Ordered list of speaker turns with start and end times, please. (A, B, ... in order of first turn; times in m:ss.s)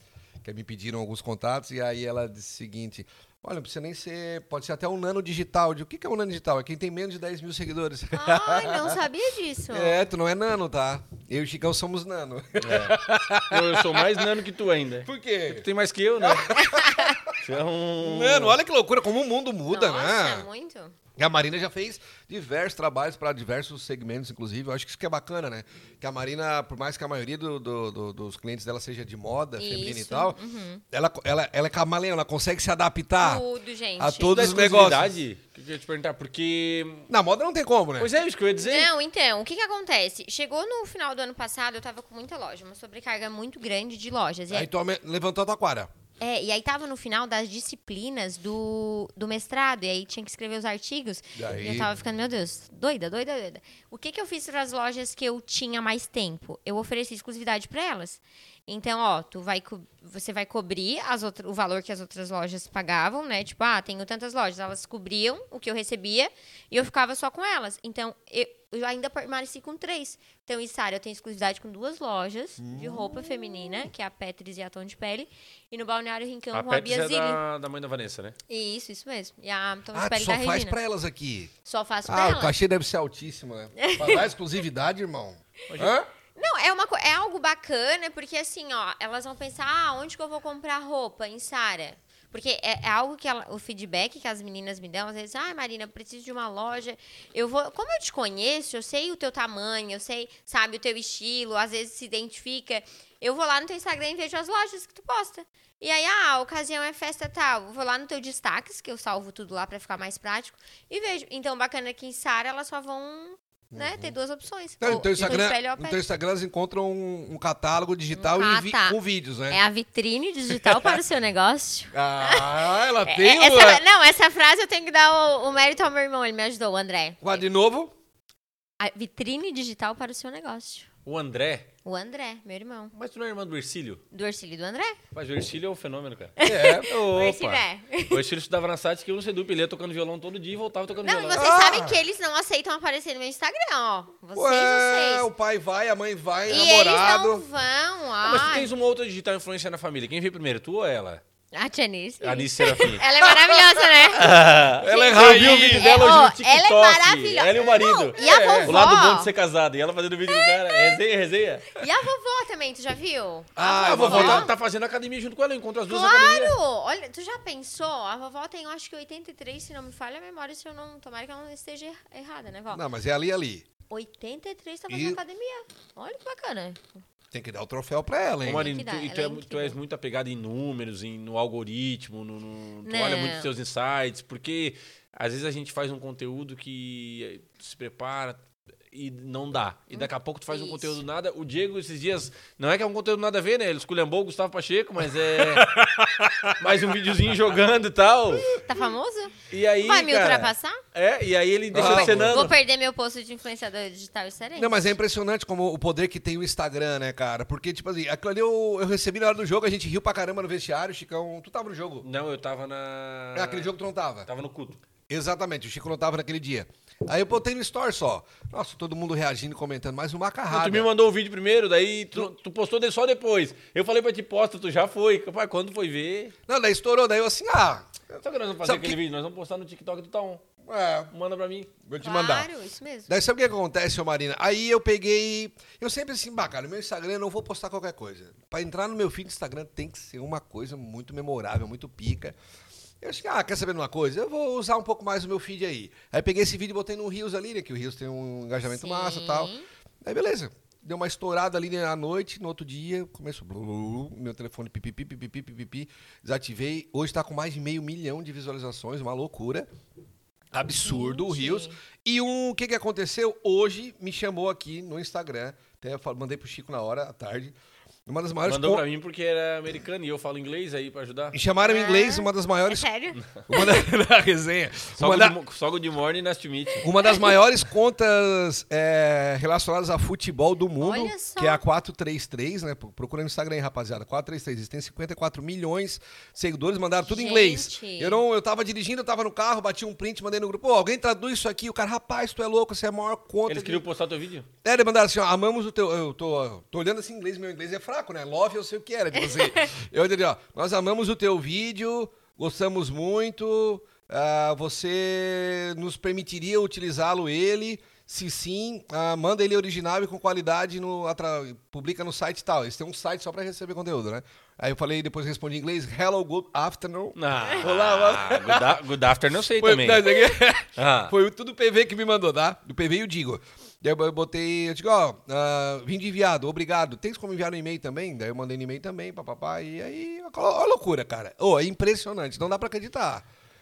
0:00.4-0:09.0 A
0:08.1-0:10.0 B
0:09.7-0:14.2 A
0:12.6-0:16.5 C
0:15.0-0:15.6 A
0:16.2-0:17.4 A
0:16.6-0:17.1 B
0:17.4-0:18.6 C
0:18.0-0:20.4 A
0:19.7-0:21.0 B
0:21.2-0:30.4 A
0:29.6-0:30.8 B
0:30.9-0:33.4 A
0:33.2-0:34.4 B
0:34.0-0:35.1 A
0:34.3-0:37.1 C
0:37.1-0:38.1 A
0:38.0-0:38.9 C
0:38.6-0:44.7 B
0:44.5-0:45.9 A
0:46.2-1:17.4 B
0:51.4-0:51.9 A
1:12.6-1:13.4 A
1:16.5-1:18.4 C
1:18.5-1:20.8 B
1:19.9-1:21.5 A
1:21.6-1:22.6 B
1:22.0-1:26.1 A
1:23.8-1:24.2 B
1:25.7-1:26.0 C
1:26.4-1:56.0 B
1:53.7-1:54.1 A
1:54.8-1:59.6 A
1:58.1-1:59.0 B
1:59.5-2:07.4 B
2:01.9-2:03.8 A
2:07.2-2:07.9 A
2:08.8-2:10.9 B
2:11.0-2:11.7 C
2:11.8-2:12.9 B
2:12.9-2:14.0 C
2:14.1-2:15.0 B
2:15.1-2:21.5 C
2:16.4-2:18.2 B
2:16.4-2:16.9 A
2:21.0-2:25.3 B
2:21.3-2:22.0 A
2:24.3-2:27.4 A
2:26.5-2:28.7 B
2:28.2-2:31.2 C
2:31.5-2:34.3 B
2:32.2-2:33.0 C
2:33.2-2:33.6 A
2:34.1-2:41.8 C
2:34.8-2:35.9 A
2:34.8-2:39.3 B
2:38.2-2:38.8 A
2:40.3-2:41.0 B
2:41.7-2:44.5 B
2:43.6-2:44.5 A
2:43.6-2:46.6 C
2:45.9-2:52.8 B
2:52.7-2:53.6 A
2:53.9-2:56.9 B
2:54.9-2:55.2 A
2:57.3-2:58.7 A
2:58.4-3:18.5 C
2:58.6-2:59.8 B
3:02.8-3:03.5 B
3:09.9-3:11.0 B
3:16.2-3:16.5 A
3:18.5-3:20.8 B
3:19.5-3:22.6 C
3:21.7-3:22.5 A
3:21.8-3:24.9 B
3:24.6-3:32.0 A
3:32.0-3:33.7 C
3:33.3-3:34.3 A
3:34.2-3:34.8 C
3:35.1-3:40.9 A
3:40.5-3:46.3 C
3:46.5-3:49.0 A
3:48.2-3:50.4 C
3:50.6-3:51.1 A
3:51.1-3:51.7 C
3:51.8-3:52.5 A
3:52.0-3:53.2 B
3:53.1-4:02.4 A
4:03.0-4:09.5 A
4:08.6-4:09.7 B
4:10.0-4:19.7 A
4:20.5-4:28.8 A
4:20.8-4:21.8 B
4:28.4-4:31.4 C
4:31.3-4:32.9 A
4:31.6-4:33.8 B
4:33.4-4:35.4 A
4:35.0-4:36.8 C
4:36.8-4:53.8 A
4:37.0-4:37.3 B
4:40.8-4:41.6 B
4:47.0-4:48.2 B
4:53.5-4:54.5 C
4:54.6-5:18.8 A
5:17.2-5:21.1 C
5:19.6-5:33.2 A